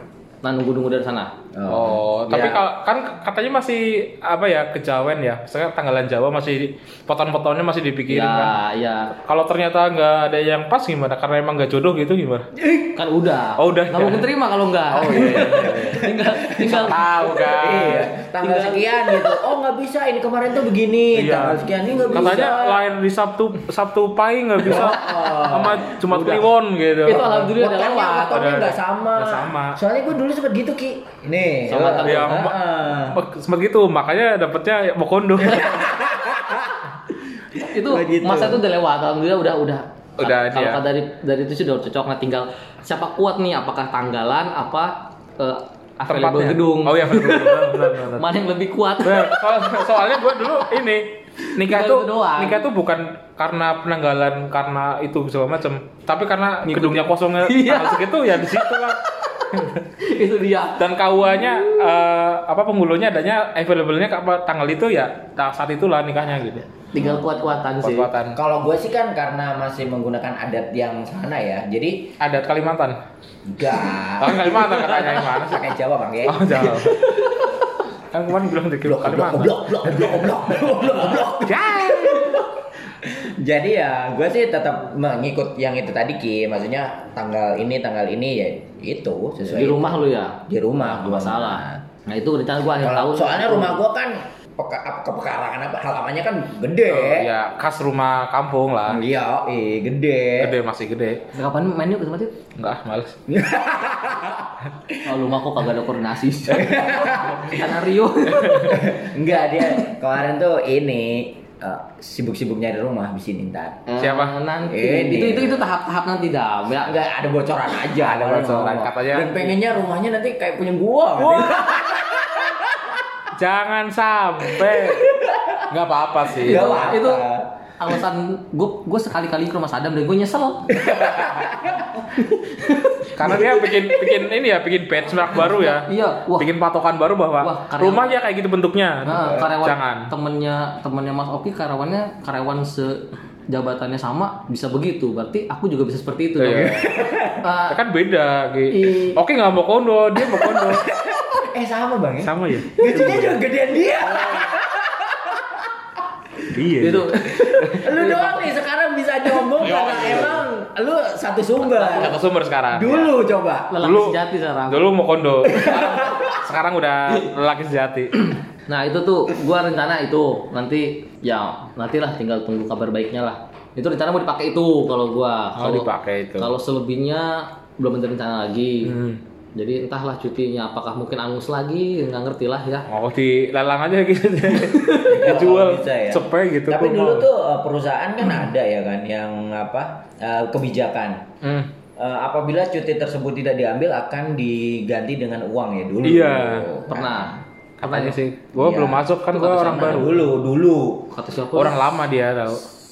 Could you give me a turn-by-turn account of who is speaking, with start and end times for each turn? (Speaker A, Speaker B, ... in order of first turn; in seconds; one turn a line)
Speaker A: 0.4-1.3
Speaker B: 1.5-2.6
Speaker C: 1.7-8.6
Speaker A: 8.1-9.1
Speaker C: 9.2-12.5
Speaker B: 12.6-13.0
Speaker A: 12.9-17.0
Speaker C: 13.6-14.3
Speaker C: 14.9-18.1
Speaker B: 15.2-22.8
Speaker A: 18.4-19.4
Speaker C: 21.1-27.3
Speaker B: 24.6-26.0
Speaker A: 26.1-26.5
Speaker A: 27.1-28.5
Speaker B: 27.1-33.2
Speaker C: 28.3-29.8
Speaker A: 31.7-32.5
Speaker C: 31.9-36.0
Speaker B: 35.5-37.0
Speaker B: 37.5-38.6
Speaker A: 37.6-49.5
Speaker C: 40.2-40.8
Speaker C: 46.1-48.3
Speaker C: 49.0-59.9
Speaker A: 51.4-52.6
Speaker A: 56.6-58.1
Speaker A: 60.0-61.7
Speaker C: 60.8-66.7
Speaker A: 66.9-68.1
Speaker C: 67.8-68.4
Speaker B: 68.3-72.2
Speaker C: 72.2-73.0
Speaker B: 73.5-77.2
Speaker C: 74.2-75.7
Speaker C: 76.3-77.1
Speaker C: 78.1-80.1
Speaker B: 78.8-91.8
Speaker C: 81.2-82.5
Speaker A: 89.5-93.8
Speaker B: 92.8-97.3
Speaker C: 96.9-99.0
Speaker B: 98.9-100.6
Speaker C: 100.4-101.2
Speaker A: 101.3-102.4
Speaker C: 102.6-103.2
Speaker B: 103.3-105.0
Speaker A: 105.0-109.0
Speaker B: 106.5-107.5
Speaker C: 108.3-108.7
Speaker B: 108.7-113.8
Speaker A: 113.9-117.0
Speaker C: 114.0-114.4
Speaker B: 114.7-115.7
Speaker B: 116.8-123.0
Speaker C: 118.0-119.5
Speaker C: 121.2-122.0
Speaker C: 123.3-126.9
Speaker B: 124.5-125.7
Speaker B: 126.3-127.5
Speaker A: 126.4-127.3
Speaker A: 127.8-131.1
Speaker B: 130.7-131.9
Speaker A: 132.1-133.4
Speaker C: 133.1-140.1
Speaker A: 135.4-136.5
Speaker A: 137.4-138.2
Speaker A: 139.0-146.9
Speaker C: 146.4-147.0
Speaker B: 146.7-147.4
Speaker A: 147.4-147.8
Speaker C: 147.7-150.9
Speaker A: 148.7-149.2
Speaker B: 150.4-155.7
Speaker C: 152.2-153.4
Speaker C: 154.2-154.5
Speaker C: 156.5-158.0
Speaker A: 156.8-158.5
Speaker B: 157.7-162.2
Speaker C: 159.6-160.5
Speaker C: 161.7-163.1
Speaker B: 162.7-163.8
Speaker A: 163.7-164.9
Speaker C: 163.8-168.3
Speaker B: 165.4-166.4
Speaker A: 168.7-179.0
Speaker C: 175.6-176.5
Speaker C: 178.8-179.2
Speaker A: 179.6-182.9
Speaker C: 182.9-187.3
Speaker A: 184.7-185.1
Speaker B: 185.1-191.3
Speaker C: 191.4-191.7
Speaker B: 192.0-197.4
Speaker C: 196.0-196.7
Speaker A: 196.9-198.2
Speaker C: 197.8-200.2
Speaker B: 198.6-201.1
Speaker A: 199.3-200.2
Speaker A: 201.1-201.8
Speaker C: 201.5-202.7